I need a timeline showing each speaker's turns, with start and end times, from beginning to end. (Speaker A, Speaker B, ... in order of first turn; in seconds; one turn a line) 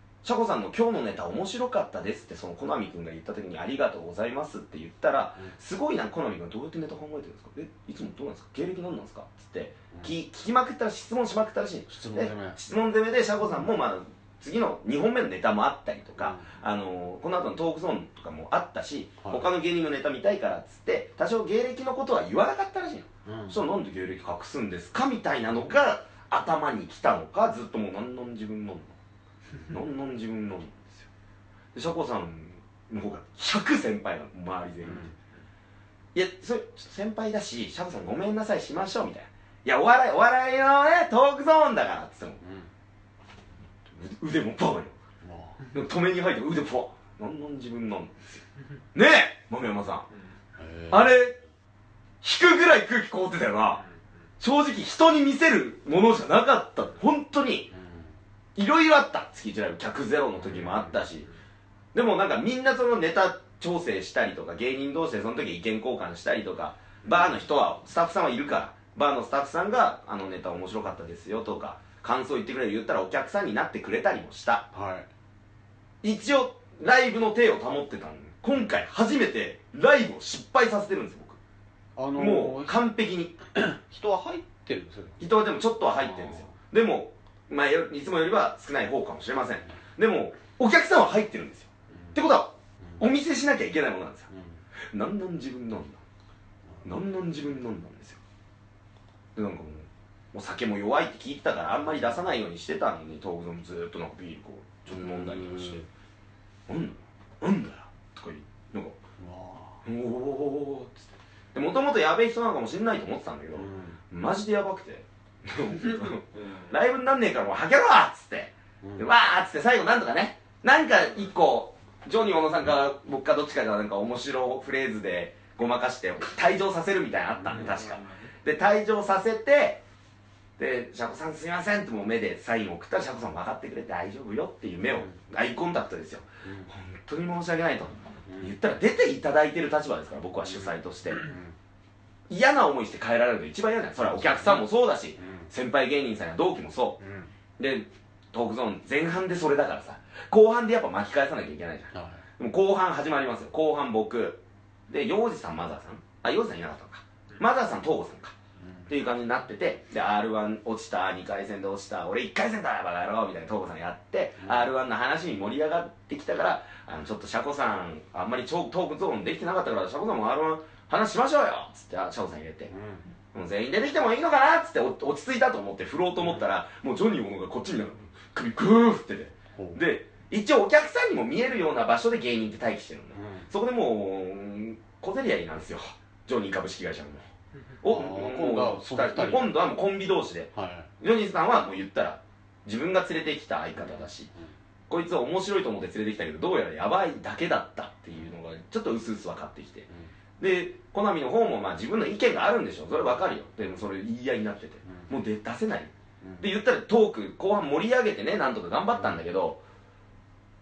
Speaker A: 0.2-28.9
Speaker B: 11.9-12.6
Speaker B: 16.2-16.5
Speaker B: 19.2-19.5
Speaker B: 23.2-23.6
Speaker A: 29.7-31.1
Speaker A: 31.7-35.1
Speaker B: 34.9-35.1
Speaker A: 36.1-42.4
Speaker B: 42.4-42.7
Speaker A: 43.9-45.0
Speaker B: 45.2-45.6
Speaker A: 45.7-48.4
Speaker A: 48.9-50.1
Speaker B: 50.6-51.2
Speaker A: 50.9-51.4
Speaker A: 52.2-53.8
Speaker A: 54.4-57.7
Speaker B: 57.7-58.1
Speaker A: 58.5-61.3
Speaker B: 60.5-60.9
Speaker A: 61.9-74.7
Speaker B: 74.7-75.1
Speaker A: 76.0-81.4
Speaker B: 82.0-82.8
Speaker A: 82.2-83.3
Speaker B: 83.5-85.2
Speaker A: 85.2-94.3
Speaker B: 86.1-86.5
Speaker B: 91.9-92.2
Speaker B: 94.3-94.6
Speaker A: 94.9-96.0
Speaker A: 96.8-98.2
Speaker A: 99.3-105.8
Speaker B: 104.9-105.8
Speaker A: 106.7-109.0
Speaker B: 109.2-109.8
Speaker A: 109.8-129.8
Speaker B: 113.5-114.0
Speaker B: 118.8-119.1
Speaker B: 127.4-127.8
Speaker A: 130.6-141.3
Speaker B: 136.4-136.7
Speaker B: 138.3-138.6
Speaker B: 141.2-141.5
Speaker A: 142.3-147.0
Speaker B: 144.1-144.6
Speaker B: 145.2-145.5
Speaker B: 147.0-147.3
Speaker A: 147.6-158.3
Speaker B: 151.9-152.2
Speaker B: 158.6-158.9
Speaker A: 158.9-172.7
Speaker B: 164.4-164.7
Speaker B: 172.7-173.0
Speaker A: 173.3-187.3
Speaker B: 179.6-179.8
Speaker B: 183.1-183.5
Speaker A: 187.8-194.3
Speaker B: 187.8-189.6
Speaker B: 190.5-190.9
Speaker A: 194.9-199.9
Speaker A: 200.4-209.6
Speaker B: 206.2-206.5